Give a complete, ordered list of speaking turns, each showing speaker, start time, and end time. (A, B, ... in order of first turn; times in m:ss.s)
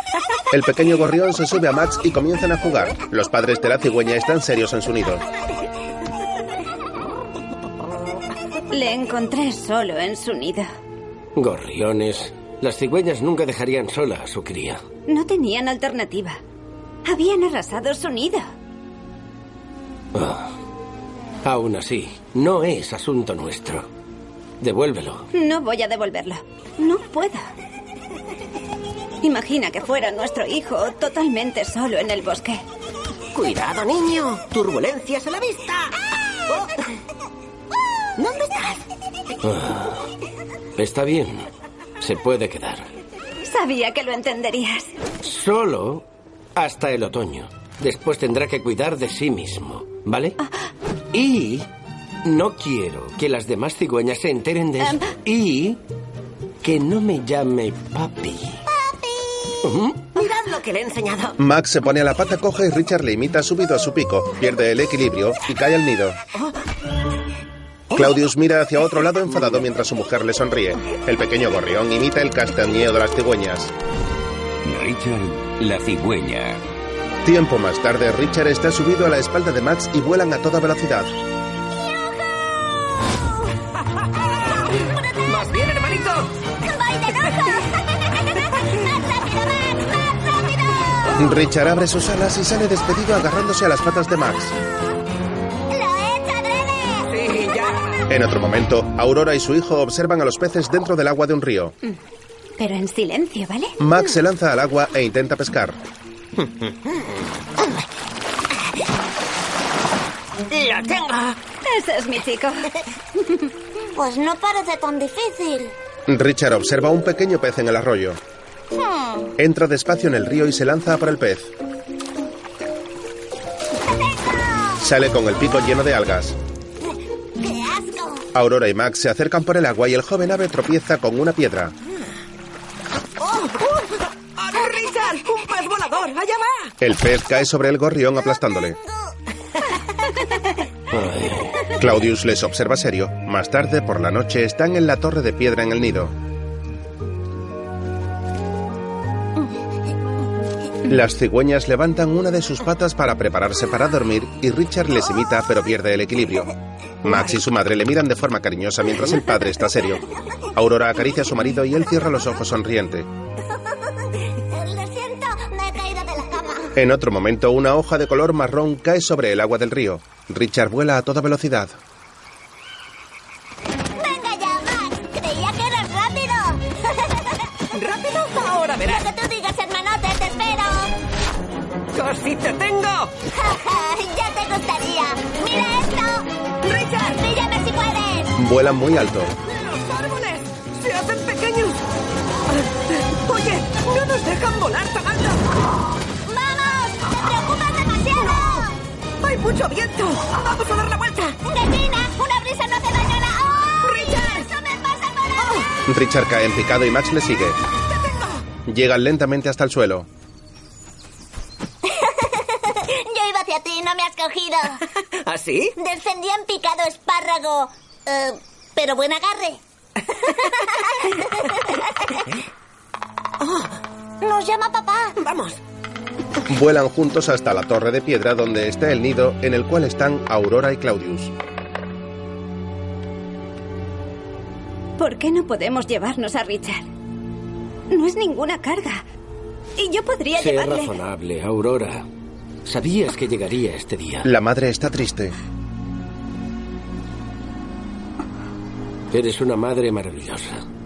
0:00.5-0:05.2 A
0:08.7-0:10.7 B
0:11.4-0:14.8 C
0:15.1-0:16.4 B
0:17.0-0:18.5 B
0:20.1-0:20.5 C
0:21.4-0:23.9 C
0:24.6-0:25.3 C
0:25.3-0:27.5 B
0:29.2-0:32.6 B
0:33.3-0:36.7 D
0:38.2-0:38.8 D
0:39.4-0:40.1 C
0:40.8-0:41.5 C
0:42.0-0:42.9 C
0:43.4-0:44.9 B
0:45.2-0:50.4 C
0:51.1-0:51.7 C
0:52.2-0:55.8 C
0:56.6-0:58.6 C
0:59.6-1:00.1 C
1:00.2-1:01.4 D
1:01.4-1:06.2 A
1:07.9-1:13.7 A
1:14.6-1:16.6 E
1:17.2-1:21.1 A
1:21.8-1:22.5 F
1:25.2-1:26.3 D
1:26.7-1:27.8 F
1:29.0-1:29.8 F
1:31.2-1:34.6 A
1:35.7-1:37.1 F
1:37.1-1:38.0 D
1:38.1-1:41.8 A
1:42.6-1:43.8 B
1:43.8-1:45.8 A
1:50.5-1:51.4 D
1:51.6-1:52.7 B
1:54.0-1:55.7 F
1:56.1-1:58.2 A
1:58.8-1:59.3 F
1:59.4-2:01.5 A
2:04.8-2:06.4 A
2:07.4-2:08.3 F
2:08.3-2:11.8 A
2:13.2-2:16.7 D
2:16.8-2:18.8 A
2:20.9-2:21.7 C
2:21.7-2:26.2 A
2:30.9-2:36.5 A
2:37.0-2:43.1 A
2:44.5-2:46.7 F
2:46.8-2:51.8 A
2:54.0-2:56.9 F
2:57.7-2:59.1 D
2:58.8-3:00.9 F
3:01.9-3:03.1 D
3:03.3-3:06.3 F
3:06.6-3:07.2 D
3:07.1-3:08.4 F
3:08.4-3:09.4 A
3:09.4-3:11.8 D
3:12.5-3:15.6 D
3:16.3-3:18.8 F
3:17.1-3:17.5 D
3:18.0-3:18.7 D
3:19.2-3:21.4 D
3:21.4-3:24.1 F
3:23.8-3:25.7 D
3:25.9-3:27.6 A
3:27.9-3:28.4 D
3:28.7-3:30.1 A
3:31.9-3:34.8 F
3:35.1-3:35.8 D
3:35.8-3:39.6 F
3:40.4-3:41.7 F
3:43.4-3:43.7 D
3:44.2-3:45.2 F
3:45.2-3:45.6 D
3:46.5-3:51.3 A
3:55.0-3:56.9 B
3:57.9-3:59.0 B
3:59.8-4:00.9 B
4:00.3-4:02.1 C
4:02.6-4:04.3 C
4:04.2-4:05.4 A
4:09.1-4:10.6 C